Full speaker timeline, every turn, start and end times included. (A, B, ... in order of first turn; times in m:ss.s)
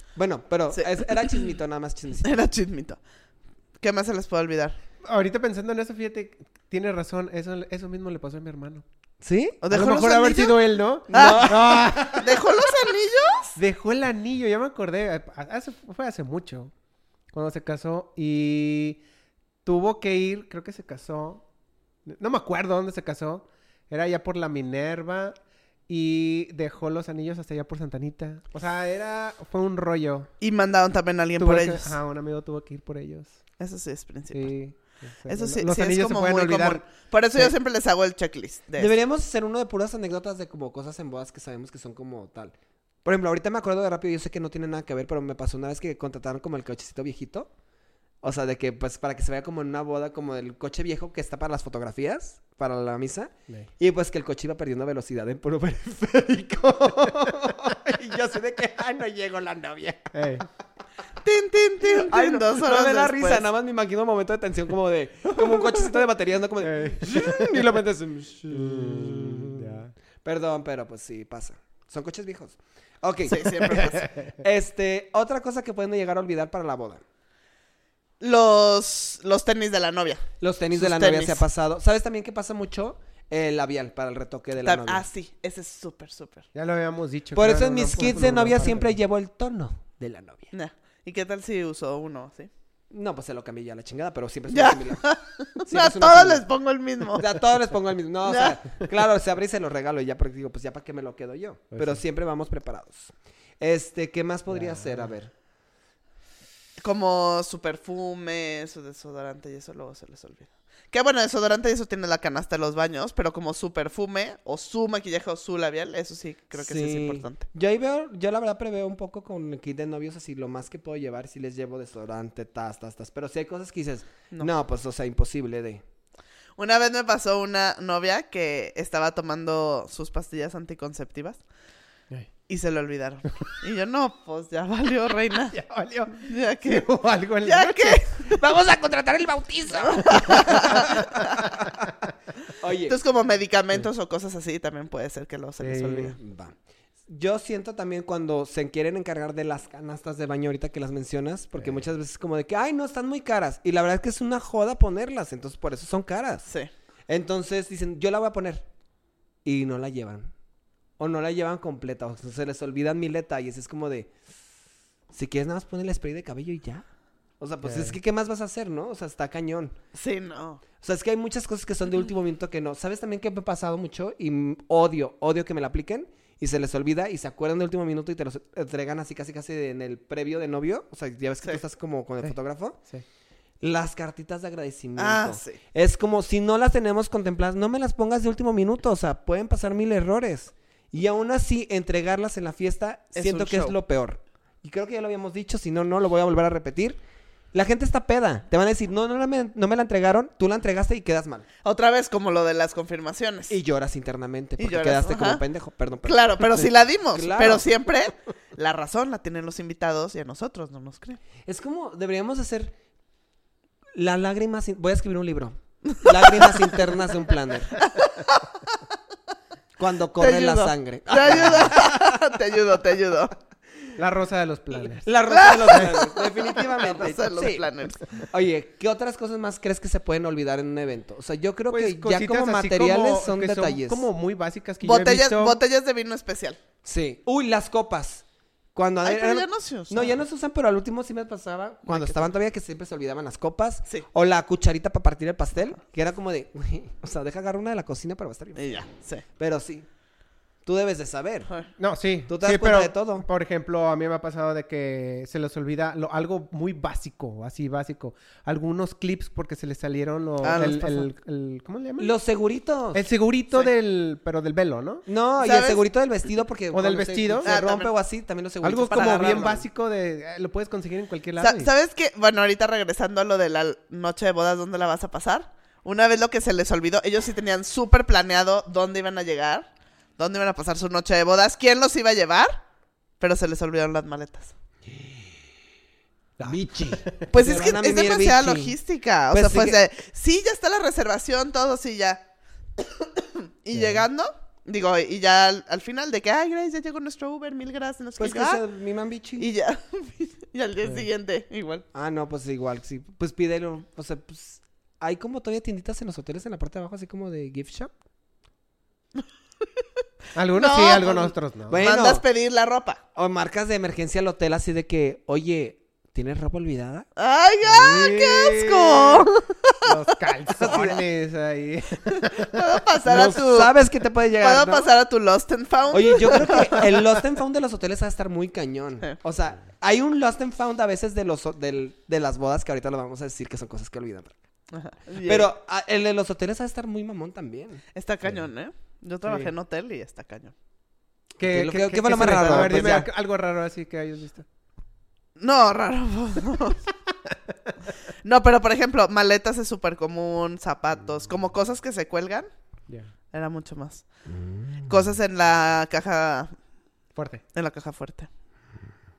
0:00.2-0:02.3 A
0:00.7-0:01.4 B
0:02.2-0:03.0 B
0:03.8-0:04.8 B
0:05.0-0:08.8 C
0:09.2-0:09.6 A
0:09.6-0:13.6 B
0:09.7-0:12.4 C
0:11.1-0:12.2 A
0:13.6-0:16.7 C
0:17.3-0:19.0 C
0:19.6-0:21.4 C
0:22.1-0:25.3 C
0:25.9-0:30.3 C
0:30.4-0:31.9 B
0:31.4-0:33.4 C
0:33.6-0:34.5 B
0:34.3-0:37.5 C
0:35.3-0:39.0 B
0:38.8-0:47.5 A
0:48.2-1:00.1 A
1:00.1-1:00.4 C
1:01.2-1:03.4 B
1:01.8-1:17.0 A
1:05.4-1:05.7 B
1:06.6-1:07.4 C
1:08.5-1:09.9 C
1:13.3-1:14.1 B
1:18.2-1:21.4 B
1:20.4-1:25.0 A
1:24.6-1:26.4 B
1:26.5-1:28.9 C
1:27.3-1:30.5 A
1:30.5-1:32.5 B
1:32.9-1:35.0 A
1:34.5-1:37.3 B
1:35.7-1:36.4 A
1:37.1-1:45.3 A
1:38.2-1:38.6 B
1:41.7-1:42.0 C
1:44.5-1:45.1 C
1:46.8-1:57.4 B
1:56.6-2:05.8 A
2:06.6-2:11.4 B
2:12.5-2:15.6 B
2:15.5-2:18.0 C
2:16.2-2:16.9 B
2:17.4-2:18.3 B
2:18.3-2:21.0 A
2:19.8-2:21.5 B
2:20.3-2:21.9 C
2:22.6-2:23.0 A
2:22.8-2:26.2 B
2:25.6-2:26.1 C
2:26.2-2:26.5 A
2:27.1-2:36.4 A
2:31.6-2:31.8 C
2:37.1-2:38.6 A
2:39.4-2:40.3 A
2:41.0-2:44.1 A
2:45.1-2:46.8 A
2:47.4-2:49.8 A
2:47.6-2:48.0 C
2:49.9-2:50.6 B
2:50.8-3:02.8 A
3:03.6-3:17.0 A
3:05.0-3:05.6 B
3:13.1-3:13.7 B
3:17.5-3:21.5 A
3:21.6-3:23.5 B
3:23.5-3:26.6 A
3:24.6-3:25.4 B
3:26.0-3:31.2 B
3:27.1-3:27.7 A
3:31.4-3:32.7 A
3:33.9-3:37.8 A
3:35.9-3:36.7 B
3:37.8-3:38.7 B
3:39.8-3:42.2 A
3:40.2-3:43.3 B
3:44.0-3:45.9 C
3:45.0-3:47.7 A
3:45.3-3:48.0 B
3:48.2-3:54.0 A
3:51.7-3:55.6 C
3:54.8-3:56.6 B
3:56.8-3:58.2 A
3:58.7-4:08.8 A
3:59.0-4:00.1 B
4:01.9-4:02.2 B
4:08.6-4:09.2 B
4:09.4-4:09.9 A
4:10.6-4:11.5 A
4:11.8-4:22.1 C
4:12.3-4:13.2 A
4:20.4-4:21.1 B
4:22.0-4:23.0 A
4:22.9-4:25.0 C
4:25.0-4:29.6 A
4:25.4-4:25.8 B
4:26.7-4:27.5 C
4:27.4-4:27.9 B
4:28.6-4:31.7 C
4:28.8-4:29.6 B
4:31.4-4:42.6 B
4:43.2-4:44.5 B
4:46.4-4:47.3 C
4:46.4-4:48.8 A
4:47.3-4:52.2 B
4:49.3-4:49.8 A
4:53.0-4:58.6 B
4:53.7-4:54.0 C
4:58.2-4:59.5 A
4:59.4-5:01.8 B
5:01.9-5:07.9 A
5:10.3-5:11.8 C
5:10.5-5:13.0 B
5:11.7-5:12.2 A
5:13.1-5:17.0 A
5:17.2-5:19.9 B
5:17.6-5:19.3 C
5:19.8-5:22.6 C
5:20.6-5:21.0 B
5:20.6-5:20.9 A
5:22.2-5:23.7 B
5:23.0-5:24.9 A
5:24.4-5:26.7 B
5:25.9-5:34.3 A
5:34.7-5:35.5 B
5:35.2-5:37.8 A
5:37.9-5:40.5 B
5:39.2-5:39.5 C
5:41.4-5:43.1 A
5:41.4-5:44.4 C
5:42.1-5:43.0 B
5:45.4-5:46.8 B
5:48.2-5:52.5 B
5:53.3-5:54.0 B
5:54.3-5:55.0 A
5:54.9-5:56.5 B
5:57.2-5:57.4 C
5:57.5-5:58.3 B